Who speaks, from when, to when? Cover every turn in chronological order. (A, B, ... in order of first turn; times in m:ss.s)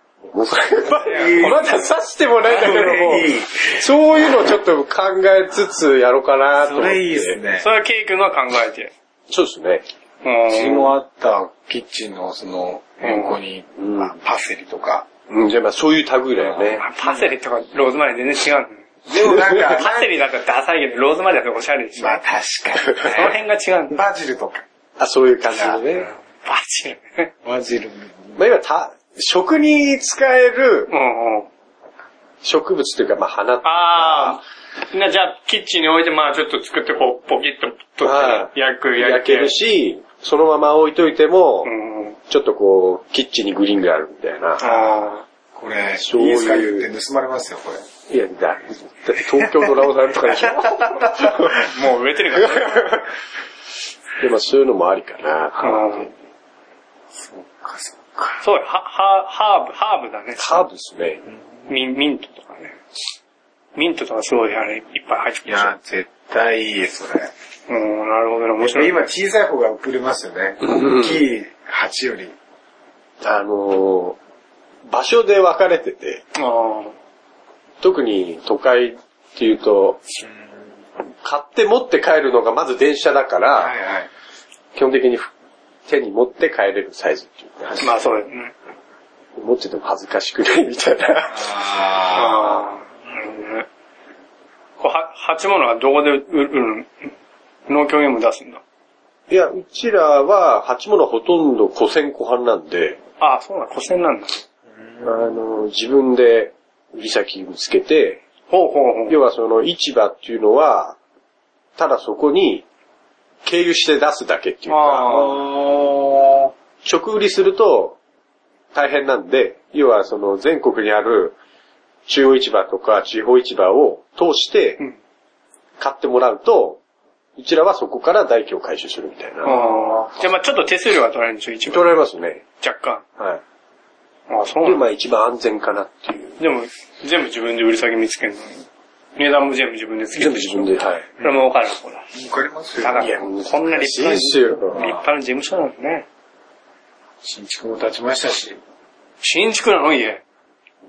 0:00.3-0:07.4 A
0:00.9-0:01.7 B
0:01.0-0:01.9 C
0:02.5-0:03.8 B
0:06.6-0:07.7 B
0:07.6-0:08.9 C
0:09.3-0:09.8 A
0:10.2-0:10.9 C
0:10.5-0:15.1 B
0:13.0-0:13.4 C
0:13.8-0:14.2 A
0:15.3-0:16.9 A
0:16.4-0:17.3 B
0:16.8-0:18.9 C
0:19.1-0:20.1 B
0:19.5-0:22.2 C
0:22.0-0:23.4 B
0:23.0-0:24.0 C
0:23.9-0:24.6 B
0:25.0-0:26.1 A
0:25.5-0:25.8 B
0:26.0-0:27.3 C
0:27.4-0:28.4 B
0:28.4-0:30.9 A
0:30.9-0:31.5 C
0:32.4-0:34.4 A
0:33.6-0:39.6 C
0:38.0-0:41.7 A
0:41.6-0:42.2 C
0:42.3-0:44.7 A
0:44.6-0:45.2 C
0:44.6-0:44.9 B
0:45.6-0:47.9 B
0:46.0-0:46.9 A
0:48.1-0:51.6 A
0:50.4-0:51.6 B
0:51.5-0:53.0 C
0:52.4-0:53.0 A
0:54.2-0:56.1 A
0:55.6-0:56.1 C
0:57.2-0:58.4 B
0:58.4-1:00.6 C
1:00.4-1:01.2 A
1:01.7-1:02.8 C
1:03.8-1:05.8 C
1:05.4-1:07.3 B
1:07.7-1:09.0 C
1:08.6-1:12.4 B
1:10.6-1:11.2 A
1:13.2-1:14.2 A
1:14.9-1:16.2 A
1:16.4-1:17.0 C
1:17.8-1:20.0 A
1:21.2-1:23.7 A
1:23.6-1:24.1 B
1:24.8-1:25.3 A
1:25.9-1:27.9 A
1:27.8-1:28.5 C
1:29.4-1:31.5 A
1:31.3-1:32.6 B
1:32.1-1:33.7 C
1:34.8-1:37.1 C
1:37.7-1:38.6 C
1:39.3-1:43.0 A
1:43.2-1:44.4 C
1:44.8-1:45.2 B
1:45.0-1:48.2 A
1:48.5-1:49.2 C
1:49.1-1:51.0 A
1:51.8-1:52.7 A
1:53.4-1:55.2 A
1:54.7-1:55.4 C
1:55.1-1:56.5 B
1:56.8-1:58.0 A
1:58.7-2:01.4 A
2:02.1-2:04.8 A
2:05.8-2:06.8 A
2:07.4-2:09.5 A
2:09.4-2:12.0 C
2:09.5-2:10.2 B
2:11.7-2:12.4 A
2:12.6-2:13.0 C
2:14.3-2:14.9 C
2:14.6-2:16.4 A
2:16.4-2:18.6 C
2:19.2-2:22.1 C
2:20.2-2:21.1 A
2:22.1-2:23.1 B
2:22.8-2:26.1 C
2:23.0-2:24.9 A
2:24.7-2:25.0 B
2:27.2-2:28.6 B
2:29.2-2:30.2 C